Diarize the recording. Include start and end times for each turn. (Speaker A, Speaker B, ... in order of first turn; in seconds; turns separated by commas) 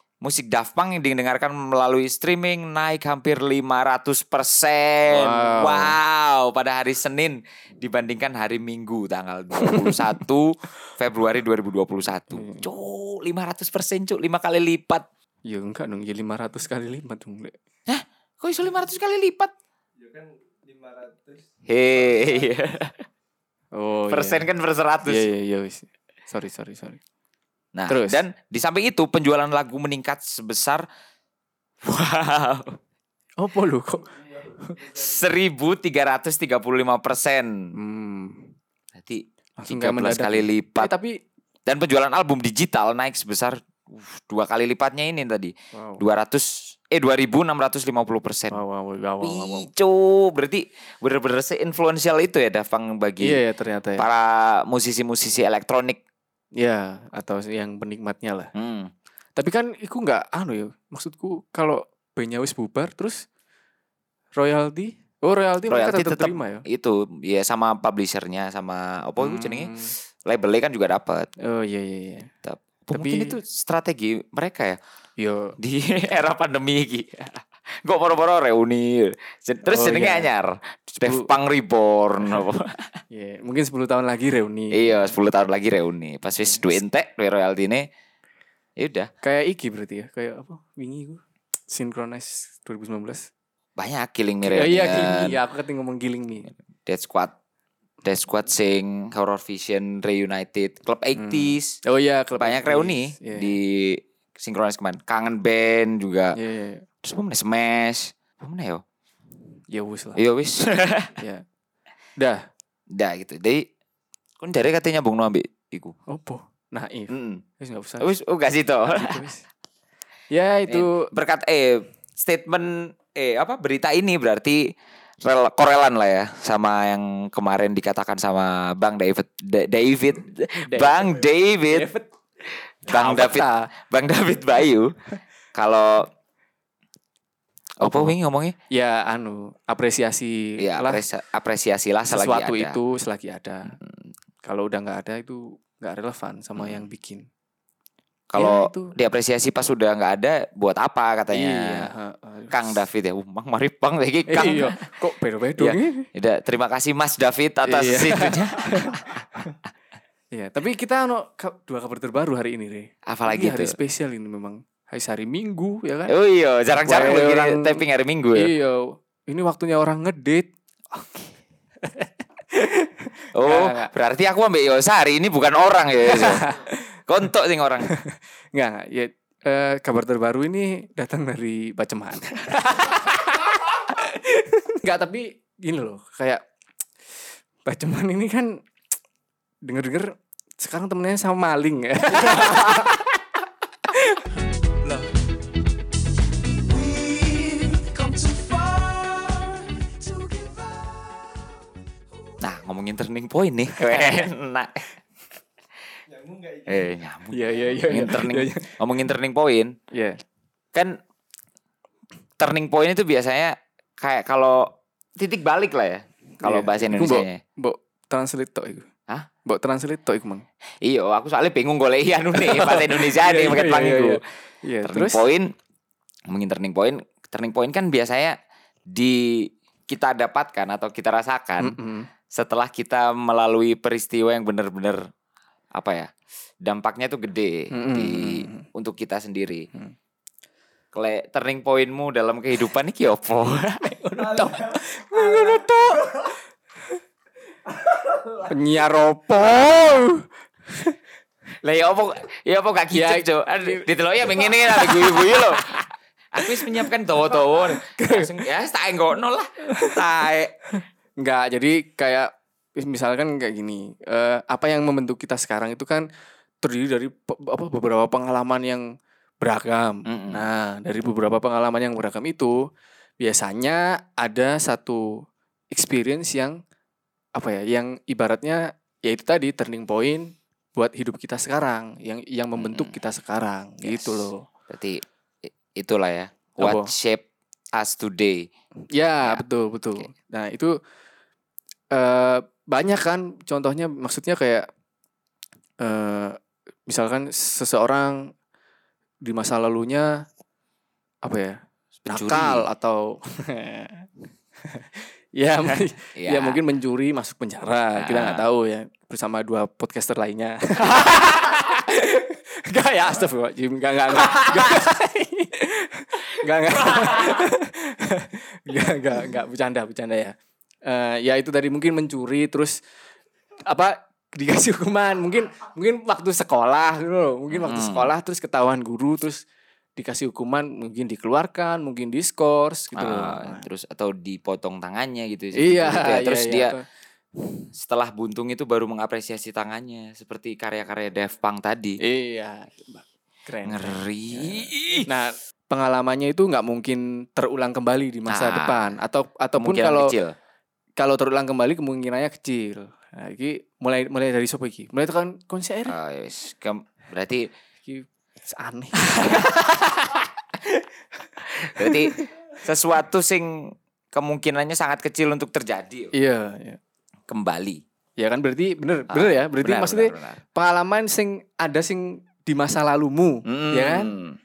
Speaker A: 0.2-15.1, Speaker B: 5.1-6.0, Speaker B: 9.6-10.1, Speaker B: 12.3-12.7, Speaker B: 15.5-17.5, Speaker A: 17.9-19.5, Speaker C: 20.0-22.6, Speaker A: 21.7-23.0, Speaker B: 23.7-24.4, Speaker A: 24.1-25.3, Speaker B: 25.0-27.0, Speaker A: 27.7-30.9, Speaker B: 27.9-28.2, Speaker A: 31.8-32.8, Speaker B: 33.4-34.8, Speaker A: 34.8-37.7, Speaker B: 37.7-38.5, Speaker A: 38.9-40.9, Speaker B: 39.6-41.2, Speaker A: 41.6-48.6, Speaker B: 45.7-46.0, Speaker B: 48.5-49.7, Speaker A: 49.2-53.4, Speaker B: 53.2-54.0, Speaker A: 54.0-56.0, Speaker B: 56.6-58.5, Speaker A: 58.5-58.9, Speaker B: 59.4-63.2, Speaker B: 64.3-66.7, Speaker A: 65.7-71.3, Speaker B: 69.2-69.9, Speaker B: 71.4-72.3, Speaker A: 72.4-74.8, Speaker B: 72.9-73.3, Speaker B: 75.2-75.5, Speaker A: 75.6-77.3, Speaker A: 77.8-82.9, Speaker B: 79.7-80.3, Speaker B: 81.0-81.3, Speaker B: 83.1-85.0, Speaker A: 84.7-87.9, Speaker A: 88.8-89.1, Speaker B: 89.2-93.3, Speaker A: 93.8-95.4, Speaker B: 94.5-96.5, Speaker A: 96.8-97.3, Speaker A: 98.0-101.8, Speaker B: 101.1-103.5, Speaker A: 102.4-106.4, Speaker B: 106.3-106.8, Speaker A: 107.0-108.8, Speaker B: 109.7-110.2, Speaker A: 110.2-111.1, Speaker B: 111.2-111.4, Speaker B: 112.2-112.4, Speaker A: 112.9-113.6, Speaker A: 114.4-115.9, Speaker B: 116.1-118.1, Speaker A: 117.1-117.4, Speaker A: 118.0-119.2, Speaker B: 118.9-119.4, Speaker B: 120.3-121.1, Speaker A: 120.7-131.9, Speaker B: 130.6-132.1, Speaker B: 132.8-133.7, Speaker A: 132.8-134.9, Speaker A: 135.5-136.1, Speaker A: 137.8-138.5, Speaker B: 137.8-138.1, Speaker B: 138.7-141.0, Speaker A: 140.6-142.8, Speaker B: 142.1-143.8, Speaker B: 144.4-147.2, Speaker A: 146.6-146.8, Speaker A: 148.3-151.9, Speaker B: 148.3-148.9, Speaker B: 151.3-152.7, Speaker A: 152.5-154.8, Speaker B: 154.3-156.1, Speaker A: 155.6-159.2, Speaker B: 157.6-159.6, Speaker B: 160.3-166.1, Speaker A: 163.1-163.8, Speaker A: 166.1-168.5, Speaker B: 166.8-167.8, Speaker B: 168.3-171.3, Speaker B: 171.8-173.9, Speaker A: 173.3-176.5, Speaker B: 176.1-176.8, Speaker A: 177.1-177.9, Speaker B: 177.8-186.4, Speaker B: 187.6-188.6, Speaker B: 189.6-193.2, Speaker B: 193.9-194.3, Speaker B: 196.9-199.0, Speaker A: 202.4-204.9, Speaker B: 203.8-204.3, Speaker C: 206.1-207.0, Speaker A: 206.7-209.7, Speaker B: 207.3-208.7, Speaker B: 209.9-210.2, Speaker A: 212.4-217.4, Speaker B: 216.4-218.9, Speaker B: 219.4-220.4, Speaker A: 220.8-224.2, Speaker B: 222.3-225.2, Speaker A: 224.8-225.5, Speaker A: 226.3-228.4, Speaker A: 228.9-231.8, Speaker B: 231.6-232.1, Speaker A: 232.3-235.0, Speaker A: 235.7-239.7, Speaker B: 237.7-238.6, Speaker A: 240.9-243.8, Speaker B: 243.8-246.3, Speaker C: 244.4-245.4, Speaker C: 247.9-248.2, Speaker B: 248.4-250.9, Speaker A: 251.6-255.8, Speaker B: 252.9-255.8, Speaker A: 256.3-260.5, Speaker B: 256.4-256.8, Speaker B: 257.5-258.3, Speaker B: 261.2-266.1, Speaker B: 266.6-268.9, Speaker B: 269.4-272.6, Speaker A: 270.1-270.4, Speaker B: 273.2-276.6, Speaker B: 277.3-284.4, Speaker A: 282.6-282.9, Speaker A: 283.8-288.5, Speaker B: 286.6-286.9, Speaker B: 288.9-290.7, Speaker B: 291.9-294.7, Speaker B: 295.8-298.3, Speaker B: 299.2-300.2, Speaker B: 301.2-304.1, Speaker A: 302.1-302.6, Speaker B: 304.6-322.8, Speaker A: 306.1-306.6, Speaker A: 308.0-308.4, Speaker A: 314.2-314.8, Speaker A: 316.9-317.4, Speaker B: 323.6-329.4, Speaker A: 327.5-328.1, Speaker B: 329.9-333.6, Speaker A: 332.9-336.7, Speaker B: 335.5-336.8, Speaker A: 337.7-342.0, Speaker B: 342.0-350.1, Speaker A: 343.6-345.1, Speaker A: 348.3-348.9, Speaker A: 349.6-350.3, Speaker B: 351.0-356.0, Speaker A: 355.9-357.5, Speaker B: 357.9-360.8, Speaker A: 359.1-359.6, Speaker B: 361.4-362.3, Speaker A: 361.6-366.1, Speaker B: 366.1-366.8, Speaker A: 367.3-367.8, Speaker B: 368.2-374.1, Speaker A: 369.1-370.4, Speaker A: 373.4-374.4